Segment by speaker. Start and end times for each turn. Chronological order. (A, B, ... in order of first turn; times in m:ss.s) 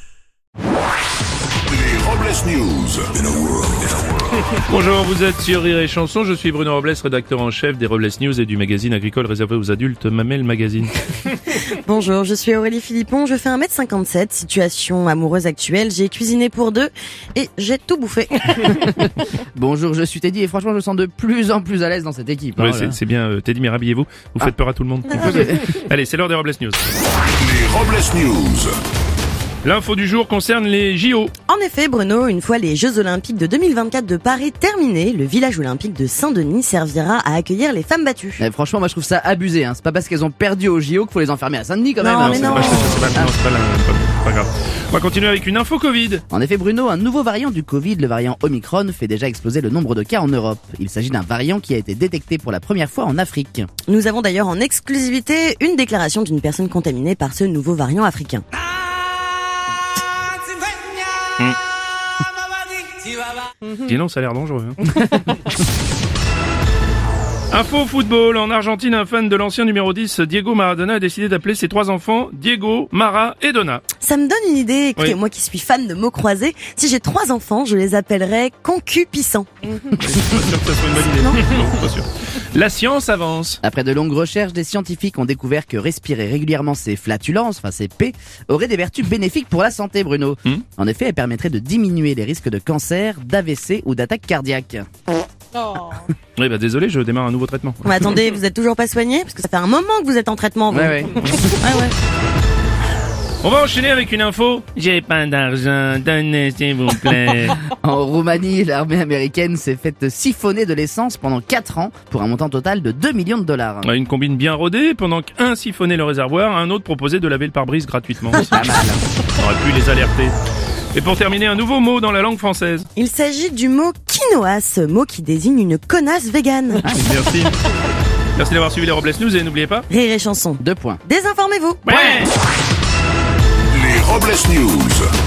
0:01.7-0:04.5 A
0:04.7-0:11.0 B
0:11.7-0:18.9 C
0:18.6-0:23.0 D
0:22.6-0:26.8 B
0:25.2-0:25.6 D
0:27.3-0:28.8 A
0:29.6-0:31.3 B
0:31.5-0:38.4 C
0:38.4-0:43.4 D
0:42.0-0:43.1 C
0:42.2-0:46.2 B
0:46.3-0:53.7 D
0:53.9-0:58.4 C
1:03.6-1:05.3 B
1:07.5-1:13.8 B
1:14.0-1:19.5 C
1:19.8-1:23.6 B
1:21.0-1:21.4 C
1:23.6-1:34.9 D
1:36.4-1:37.8 B
1:37.8-1:41.9 C
1:40.7-1:41.6 D
1:43.4-1:47.6 B
1:47.7-1:53.9 D
1:53.8-2:00.4 B
1:58.4-1:59.0 D
2:01.0-2:02.9 B
2:03.0-2:06.8 C
2:06.8-2:07.1 D
2:06.8-2:07.6 B
2:08.4-2:09.9 B
2:09.9-2:12.2 C
2:10.6-2:11.0 D
2:11.9-2:12.3 B
2:13.7-2:15.1 A